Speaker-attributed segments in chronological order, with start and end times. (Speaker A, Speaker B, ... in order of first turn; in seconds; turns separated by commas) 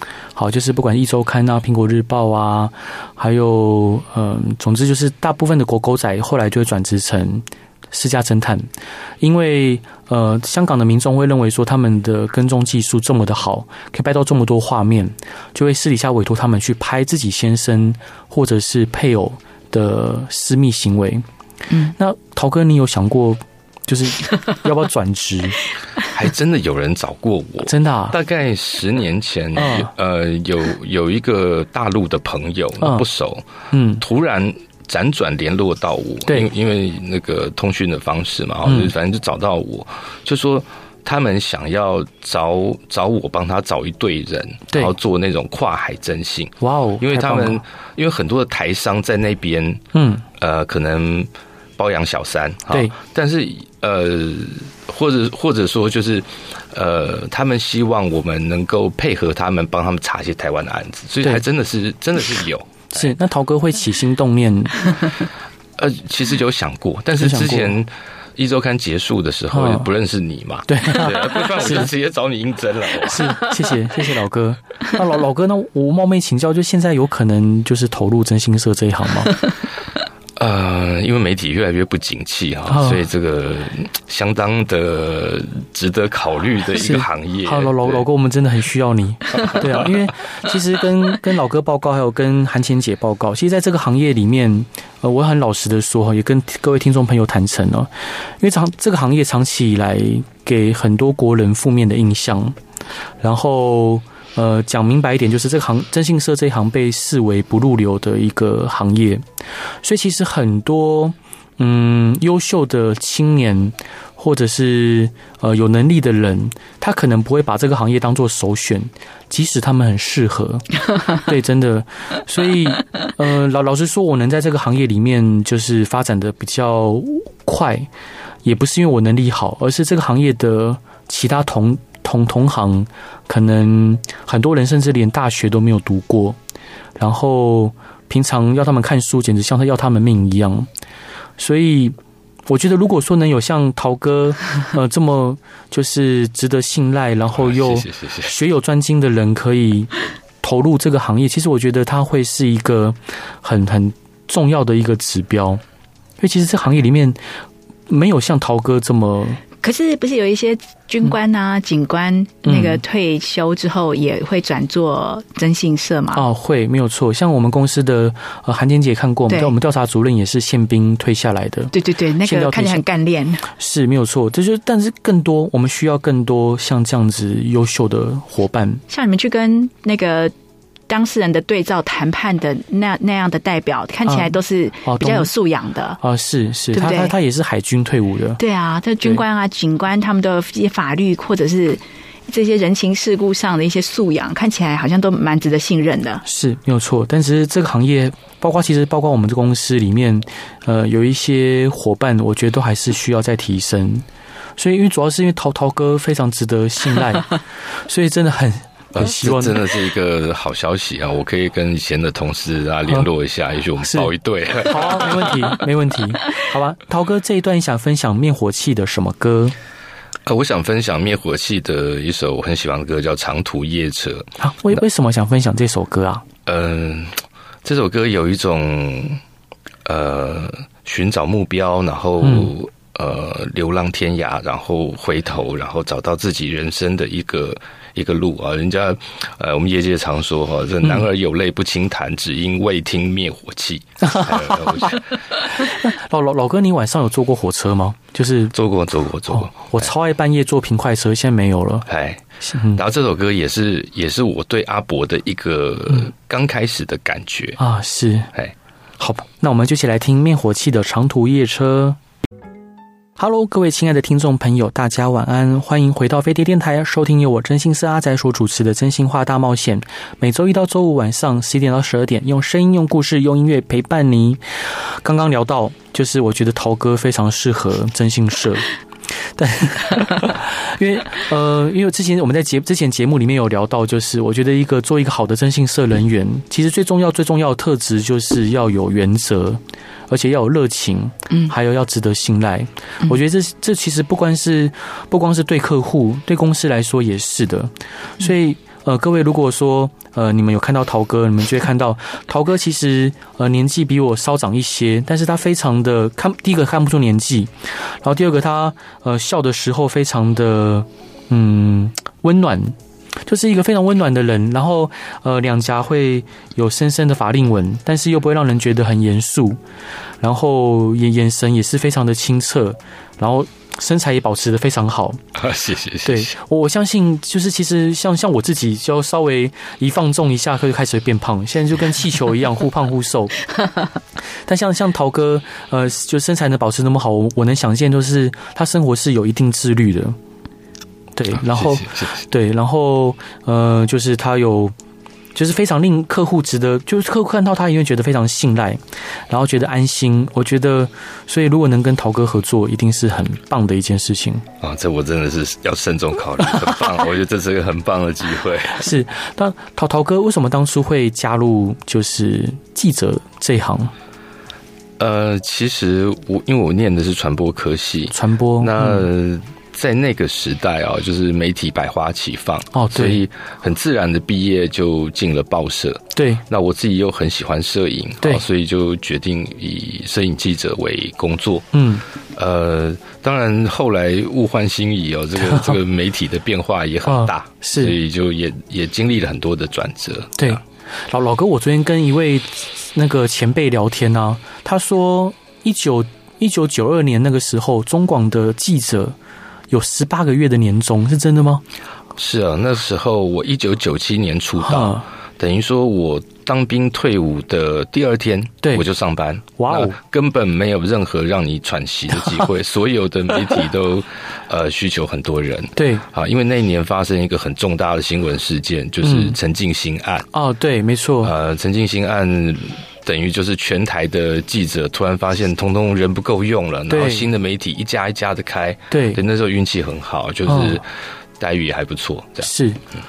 Speaker A: 0.3-8.7, Speaker A: 9.2-21.2, Speaker A: 21.9-25.6, Speaker B: 26.1-33.4, Speaker A: 27.6-28.2, Speaker A: 29.6-29.9, Speaker A: 33.7-34.0, Speaker B: 34.0-49.8, Speaker A: 38.6-38.9, Speaker A: 46.6-47.6, Speaker A: 49.9-50.2, Speaker B: 50.4-63.1, Speaker A: 52.7-52.9, Speaker A: 62.9-64.9, Speaker B: 65.8-73.4, Speaker A: 67.2-67.7, Speaker A: 69.5-69.9, Speaker A: 70.7-71.9, Speaker A: 73.0-79.3, Speaker B: 80.4-88.0, Speaker A: 82.7-83.0, Speaker A: 86.8-102.5, Speaker A: 103.2-109.2, Speaker A: 109.8-127.9, Speaker A: 128.4-136.4, Speaker A: 137.0-140.7, Speaker A: 141.4-141.9, Speaker A: 142.5-155.6, Speaker B: 147.3-148.3, Speaker A: 156.2-157.2, Speaker A: 157.9-159.4, Speaker C: 159.6-166.2, Speaker A: 162.4-162.8, Speaker A: 166.1-172.8, Speaker C: 169.3-169.5, Speaker C: 171.7-173.4, Speaker A: 173.6-178.8, Speaker C: 178.9-180.3, Speaker C: 180.9-186.0, Speaker A: 184.1-185.3, Speaker A: 186.0-188.4, Speaker C: 186.7-187.1, Speaker C: 188.4-196.2, Speaker A: 196.2-204.0, Speaker A: 204.6-209.7, Speaker B: 208.9-215.3, Speaker A: 213.8-219.5, Speaker B: 220.2-224.3, Speaker A: 224.4-226.2, Speaker B: 226.4-229.2, Speaker B: 229.8-245.0, Speaker A: 232.2-232.5, Speaker A: 244.0-245.0, Speaker A: 245.5-248.5, Speaker B: 248.5-249.9, Speaker A: 249.3-251.9, Speaker B: 251.9-257.6, Speaker A: 252.4-252.8, Speaker A: 257.6-258.3, Speaker A: 259.0-262.0, Speaker A: 263.2-278.7, Speaker A: 279.4-319.6, Speaker A: 320.2-325.2, Speaker B: 325.3-326.3, Speaker A: 326.0-333.4, Speaker A: 334.4-340.1, Speaker A: 341.1-344.7, Speaker B: 341.5-342.2, Speaker A: 345.3-354.4, Speaker B: 354.6-358.9, Speaker A: 358.7-363.9, Speaker B: 365.0-381.7, Speaker A: 368.1-369.1, Speaker A: 372.7-373.2, Speaker A: 376.1-376.4, Speaker A: 381.7-382.0, Speaker B: 382.3-390.6, Speaker A: 385.4-385.7, Speaker A: 387.1-388.0, Speaker A: 390.4-399.1, Speaker A: 399.7-401.6, Speaker B: 402.1-420.2, Speaker A: 404.6-405.1, Speaker A: 408.6-408.9, Speaker A: 409.6-410.0, Speaker A: 415.8-416.1, Speaker A: 419.0-419.4, Speaker A: 420.3-421.3, Speaker B: 421.2-430.9, Speaker A: 426.9-427.3, Speaker A: 428.9-429.2, Speaker A: 430.5-430.8, Speaker B: 431.4-432.5, Speaker A: 432.4-432.8